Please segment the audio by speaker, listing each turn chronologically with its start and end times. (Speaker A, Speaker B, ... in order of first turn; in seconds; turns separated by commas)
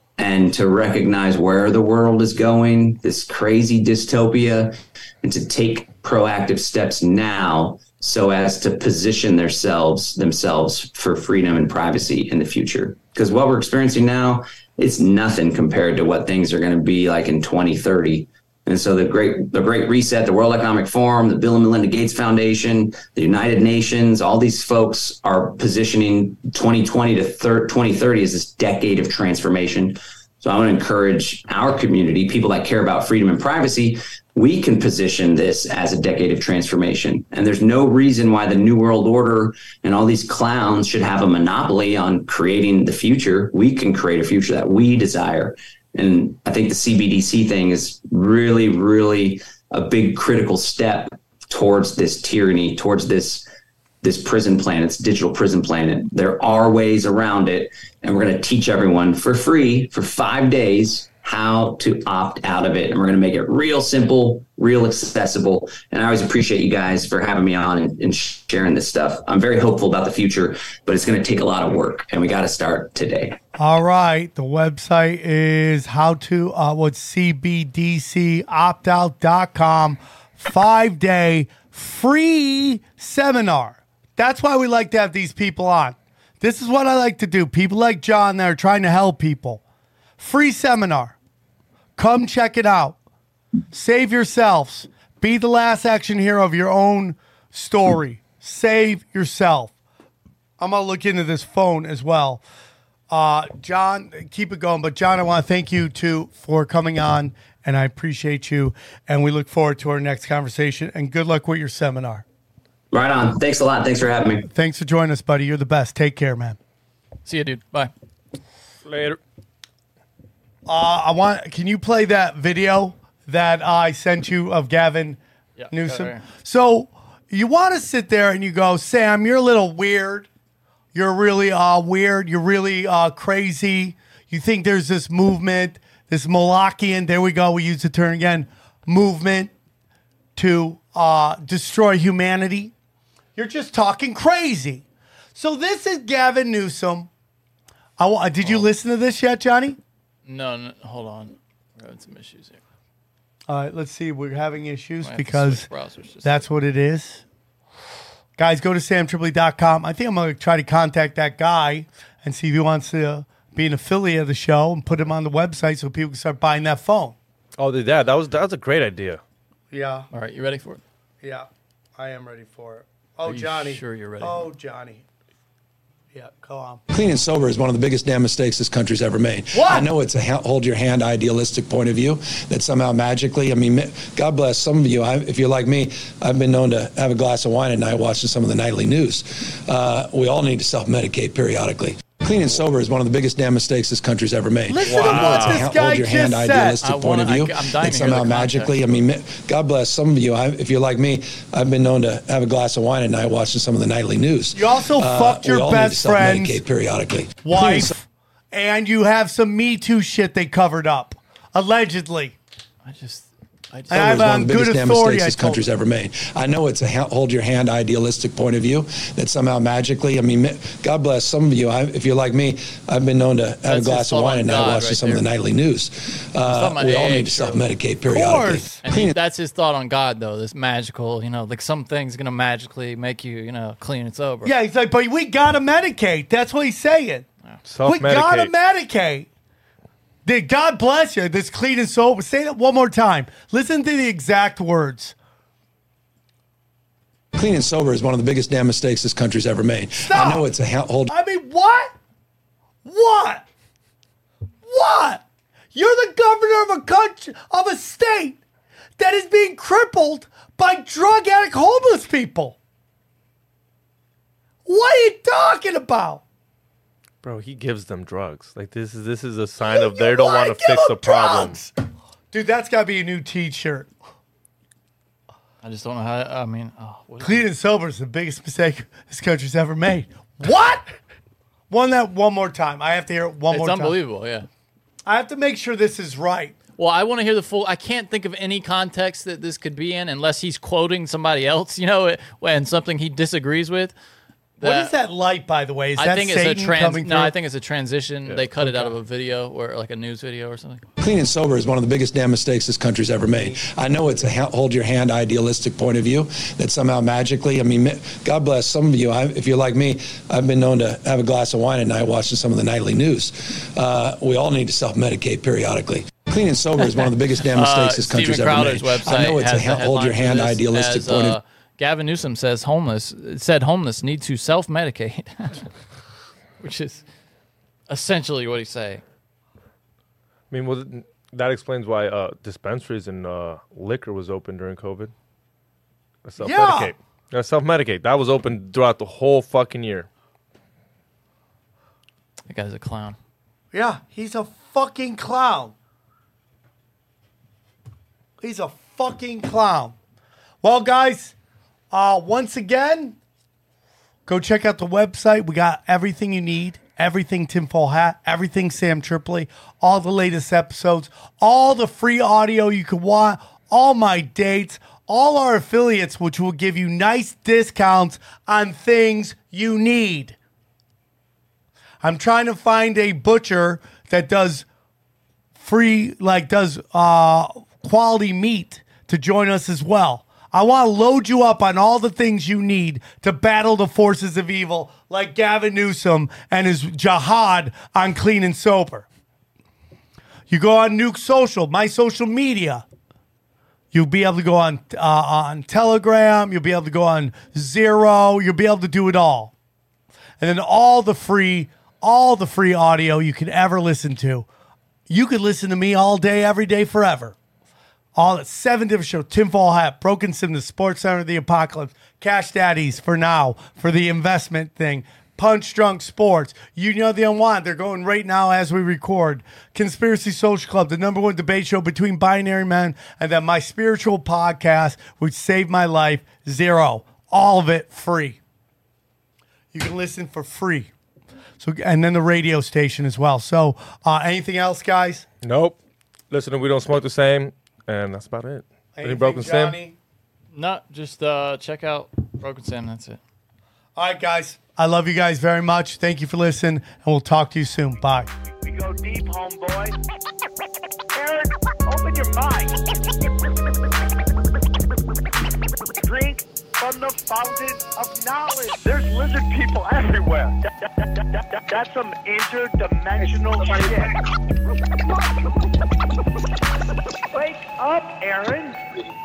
Speaker A: 0.2-53.4, Speaker A: 54.0-73.4, Speaker B: 73.6-89.6, Speaker B: 90.2-91.2, Speaker B: 92.0-93.0, Speaker B: 93.7-99.7, Speaker B: 100.6-102.4, Speaker B: 103.1-112.2, Speaker A: 112.9-114.5, Speaker B: 114.5-116.6, Speaker C: 117.2-117.9, Speaker D: 118.9-119.2, Speaker B: 120.7-125.2, Speaker C: 125.6-126.2, Speaker B: 125.7-130.3, Speaker B: 130.9-139.5, Speaker B: 140.3-142.7, Speaker B: 143.3-147.1, Speaker B: 148.0-149.8, Speaker C: 150.2-152.6, Speaker B: 153.5-155.7, Speaker C: 155.0-156.4, Speaker B: 156.2-157.2, Speaker B: 158.4-167.2, Speaker D: 167.6-169.2, Speaker B: 169.7-170.1, Speaker C: 170.1-170.8, Speaker B: 171.2-175.0, Speaker C: 173.2-174.5, Speaker B: 176.1-176.8, Speaker E: 176.9-207.9, Speaker B: 179.5-179.9, Speaker B: 194.7-196.8, Speaker D: 194.9-195.6, Speaker C: 196.8-198.9, Speaker B: 204.5-206.6, Speaker B: 207.4-212.4, Speaker C: 212.8-214.2, Speaker B: 213.9-215.6, Speaker E: 213.9-229.1, Speaker C: 223.7-225.2, Speaker C: 226.5-227.7, Speaker B: 228.1-228.8, Speaker C: 228.8-234.5, Speaker B: 234.4-237.2, Speaker D: 237.7-238.5, Speaker B: 237.8-239.3, Speaker B: 240.2-245.1, Speaker E: 247.3-251.1, Speaker B: 250.0-250.4, Speaker B: 251.1-251.9, Speaker B: 252.8-253.4, Speaker B: 254.6-258.4, Speaker B: 259.0-262.6, Speaker B: 264.6-266.2, Speaker D: 267.2-271.6, Speaker B: 269.6-271.7, Speaker B: 272.3-273.9, Speaker C: 275.6-277.5, Speaker B: 277.2-280.9, Speaker B: 281.7-283.9, Speaker C: 283.5-284.5, Speaker B: 285.0-286.6, Speaker C: 286.8-293.9, Speaker C: 294.6-294.9, Speaker B: 294.6-297.3, Speaker C: 296.0-300.8, Speaker D: 298.3-298.9, Speaker E: 301.0-321.4, Speaker C: 317.5-325.7, Speaker C: 326.6-327.0, Speaker C: 327.9-329.0, Speaker D: 330.5-335.1, Speaker D: 336.2-340.1, Speaker B: 336.4-336.9, Speaker C: 342.5-343.2, Speaker B: 343.7-345.7, Speaker B: 348.4-349.9, Speaker B: 350.6-351.3, Speaker B: 351.9-353.2, Speaker B: 354.2-370.4, Speaker B: 372.0-374.6, Speaker B: 375.6-389.1, Speaker B: 390.5-392.8, Speaker B: 393.9-399.5, Speaker B: 400.4-404.5, Speaker B: 405.1-407.4, Speaker B: 408.1-428.4, Speaker B: 429.7-430.9, Speaker B: 431.6-435.2, Speaker D: 435.4-435.8, Speaker D: 436.3-439.8, Speaker B: 438.9-440.0, Speaker C: 440.5-443.2, Speaker B: 443.9-448.3, Speaker F: 448.5-450.0, Speaker F: 451.1-452.8, Speaker F: 456.0-464.2, Speaker F: 467.3-468.8